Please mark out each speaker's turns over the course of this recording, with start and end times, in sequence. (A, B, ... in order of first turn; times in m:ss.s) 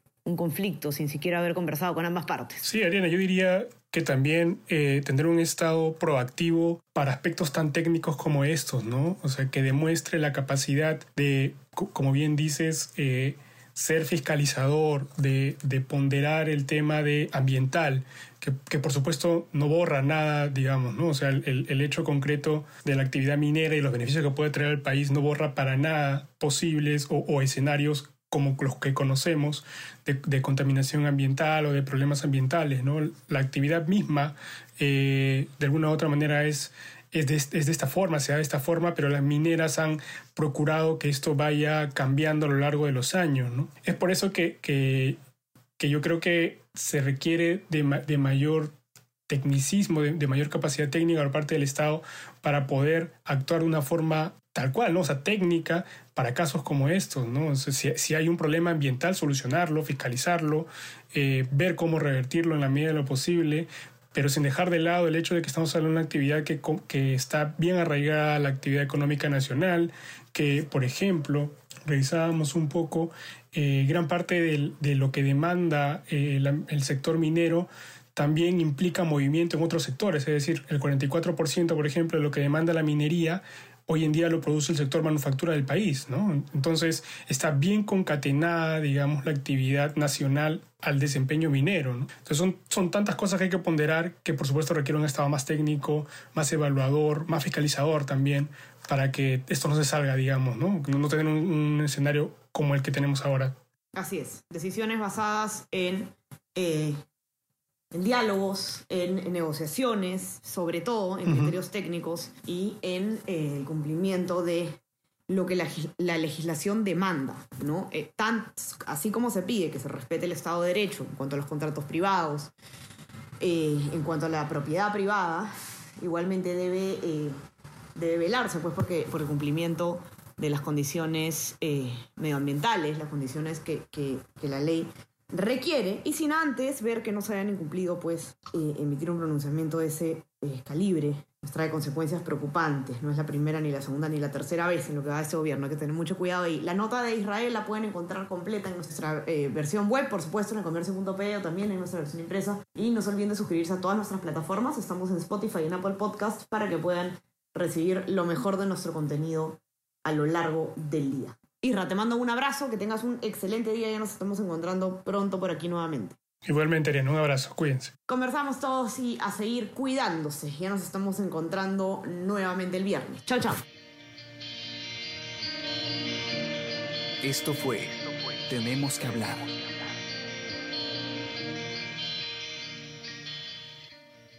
0:00.2-0:02.6 A
0:02.6-0:45.2 B
0:45.8-0:48.7 B
0:49.3-1:43.5 B
1:43.9-1:47.0 A
1:47.9-2:02.5 A
1:51.2-1:51.6 B
2:03.4-2:07.4 A
2:07.9-2:46.2 A
2:46.4-2:47.9 B
2:48.1-2:53.6 A
2:57.2-2:59.7 C